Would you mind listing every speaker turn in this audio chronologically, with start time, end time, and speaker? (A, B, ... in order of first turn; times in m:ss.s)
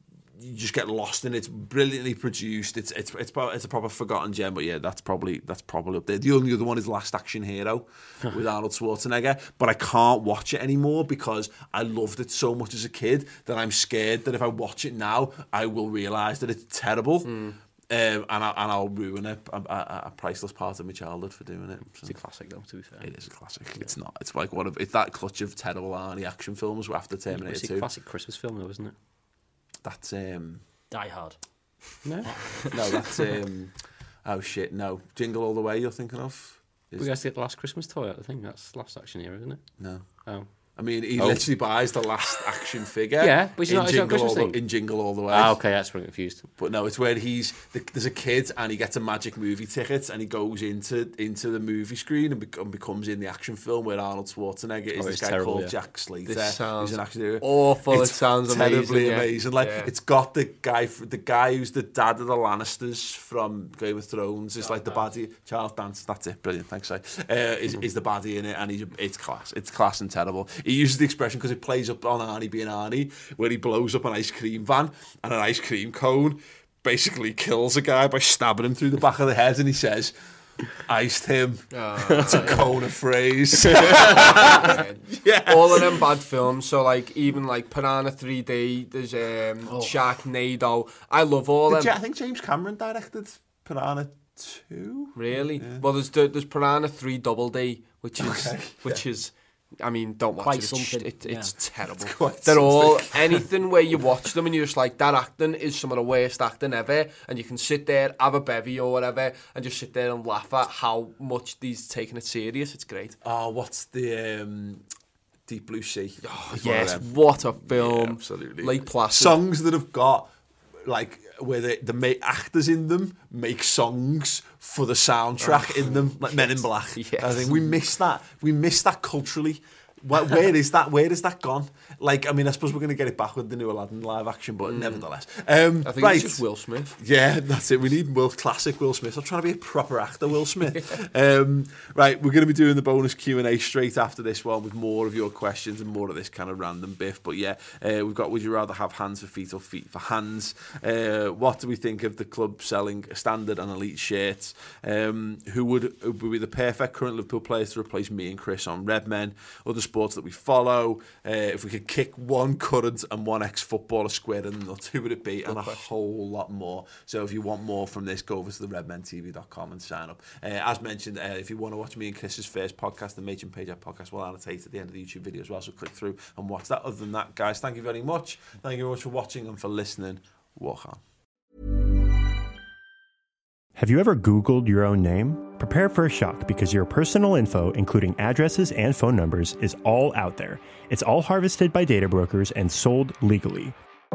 0:00.3-0:17.4 A
0:17.2-0:17.6 B
0:17.9-0:22.2 A
0:22.0-0:23.1 C
0:23.0-0:27.9 A
0:27.3-0:28.9 C
0:29.8-0:30.6 A
0:30.9-0:31.4 D
0:32.0-0:32.8 C
0:32.6-0:37.2 A
0:37.0-0:39.6 C
0:39.8-0:45.6 A
0:41.2-0:41.5 C
0:43.2-0:44.6 C
0:45.3-0:46.5 C
0:46.6-1:20.1 A
0:55.0-0:55.7 C
0:56.3-0:59.9 B
1:04.7-1:05.0 B
1:20.7-1:26.0 A
1:21.7-1:22.7 B
1:23.7-1:31.9 B
1:29.7-1:30.0 D
1:31.7-1:35.8 A
1:35.2-1:53.2 B
1:38.2-1:39.0 A
1:40.4-1:41.5 D
1:42.0-1:43.4 A
1:53.2-1:54.8 A
1:55.5-2:00.3 A
1:56.2-1:59.4 B
2:00.8-3:01.0 A
2:05.4-2:07.7 B
2:14.6-2:15.0 B
2:15.8-2:17.0 B
2:45.4-2:45.9 B
3:03.8-3:13.8 E